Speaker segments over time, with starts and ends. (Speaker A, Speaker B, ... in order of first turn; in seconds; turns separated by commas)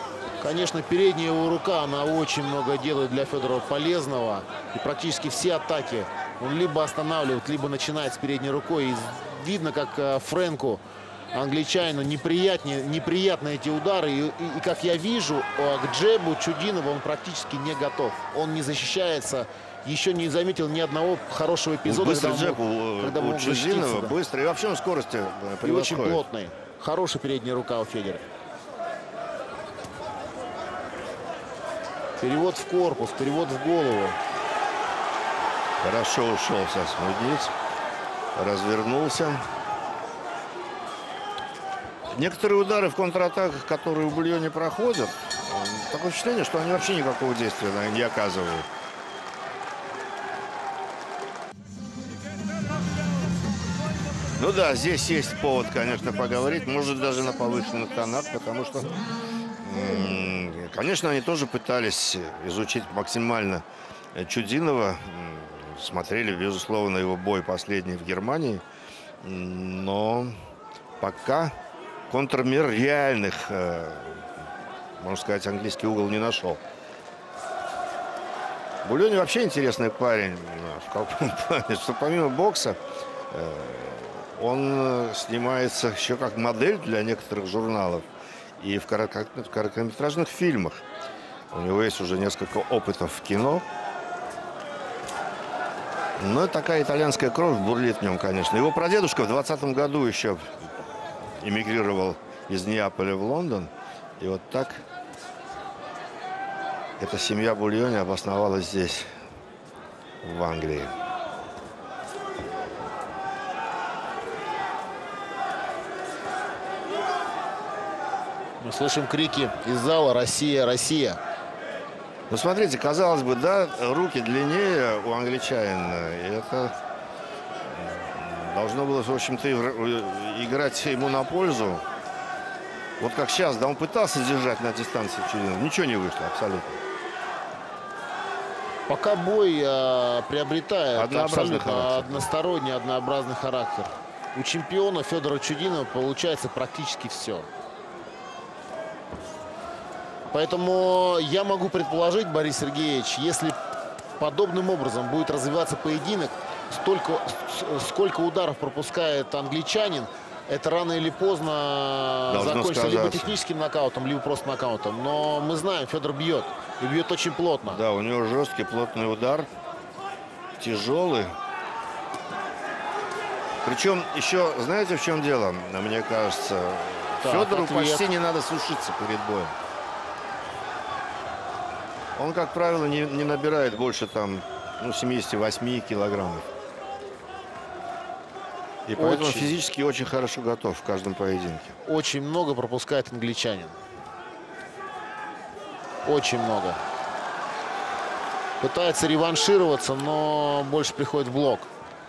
Speaker A: 0.4-24.1, Speaker B: 21.9-26.2, Speaker A: 25.6-28.2, Speaker A: 32.2-34.2, Speaker B: 35.8-37.5, Speaker B: 38.4-39.4, Speaker B: 42.1-48.7, Speaker B: 54.4-59.0, Speaker B: 59.6-63.6, Speaker B: 64.2-68.6, Speaker B: 69.2-70.4, Speaker B: 71.0-71.6, Speaker B: 72.1-74.3, Speaker B: 75.0-76.6, Speaker B: 78.8-82.8, Speaker B: 83.3-88.0, Speaker B: 88.6-90.8, Speaker B: 91.5-93.7, Speaker B: 96.2-100.5, Speaker B: 101.4-104.8, Speaker B: 107.0-109.1, Speaker B: 110.2-110.9, Speaker A: 118.6-121.2, Speaker B: 122.3-126.7, Speaker B: 127.6-131.8, Speaker B: 133.0-136.8, Speaker A: 138.9-147.5, Speaker B: 140.9-142.3, Speaker A: 150.3-153.6, Speaker A: 154.2-167.8, Speaker B: 162.3-163.4, Speaker B: 167.7-169.5, Speaker B: 170.6-171.3, Speaker B: 173.6-179.5, Speaker A: 177.2-178.1, Speaker B: 182.2-186.5, Speaker B: 188.9-191.8, Speaker A: 189.0-189.5, Speaker A: 191.8-193.8, Speaker A: 196.0-196.8, Speaker A: 198.6-201.7